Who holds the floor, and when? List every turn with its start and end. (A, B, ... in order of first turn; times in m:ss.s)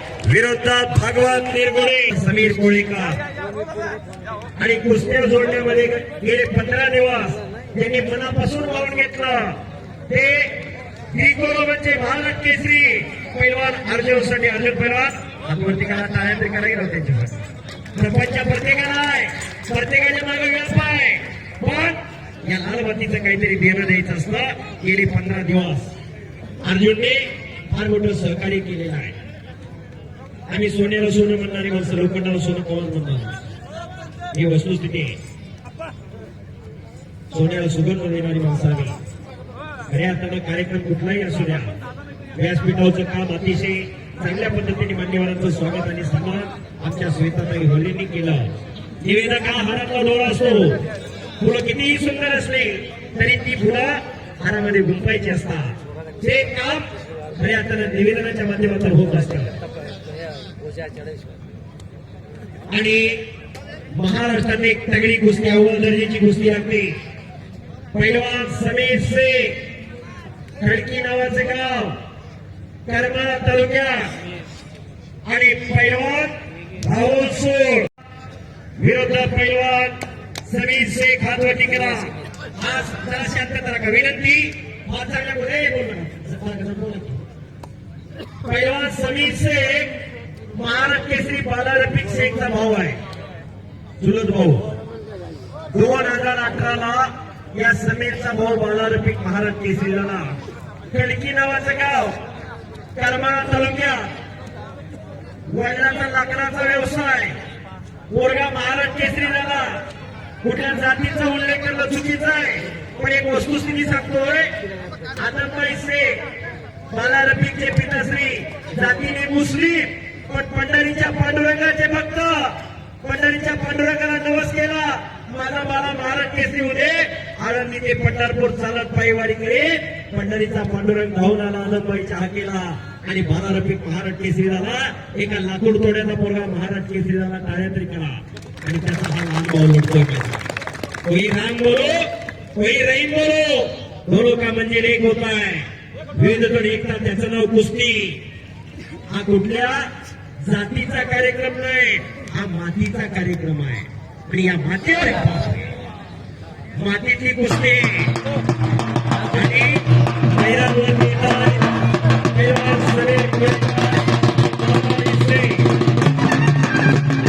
0:00.2-0:03.2 A
0:04.6-0:09.6 A
0:10.1-0:10.6 A
0:11.1-0:17.4 A
0:18.0-0:25.9 A
0:26.6-0:29.2 A
0:30.5-0:33.4 A
0:34.3-0:35.2 A
0:37.3-0:39.0 A
0:39.9-0:41.7 A
0:42.4-0:48.5 A
0:49.0-0:50.8 A
0:51.4-0:59.5 A
1:02.7-1:03.2 A
1:03.9-1:07.0 A
1:07.9-1:09.6 A
1:10.6-1:12.0 A
1:12.9-1:14.1 A
1:15.2-1:17.9 A
1:18.8-1:27.2 A
1:28.4-1:29.9 A
1:30.6-1:33.0 A
1:34.0-1:34.7 A
1:35.7-1:40.4 A
1:40.9-1:42.2 A
1:42.9-1:44.1 A
1:45.5-1:47.4 A
1:48.1-1:49.8 A
1:50.4-1:54.5 A
1:55.2-1:56.2 A
1:56.9-2:20.5 A
2:21.0-2:28.2 A
2:29.1-2:35.7 A
2:36.8-2:38.2 A
2:39.3-2:41.7 A
2:42.3-2:45.7 A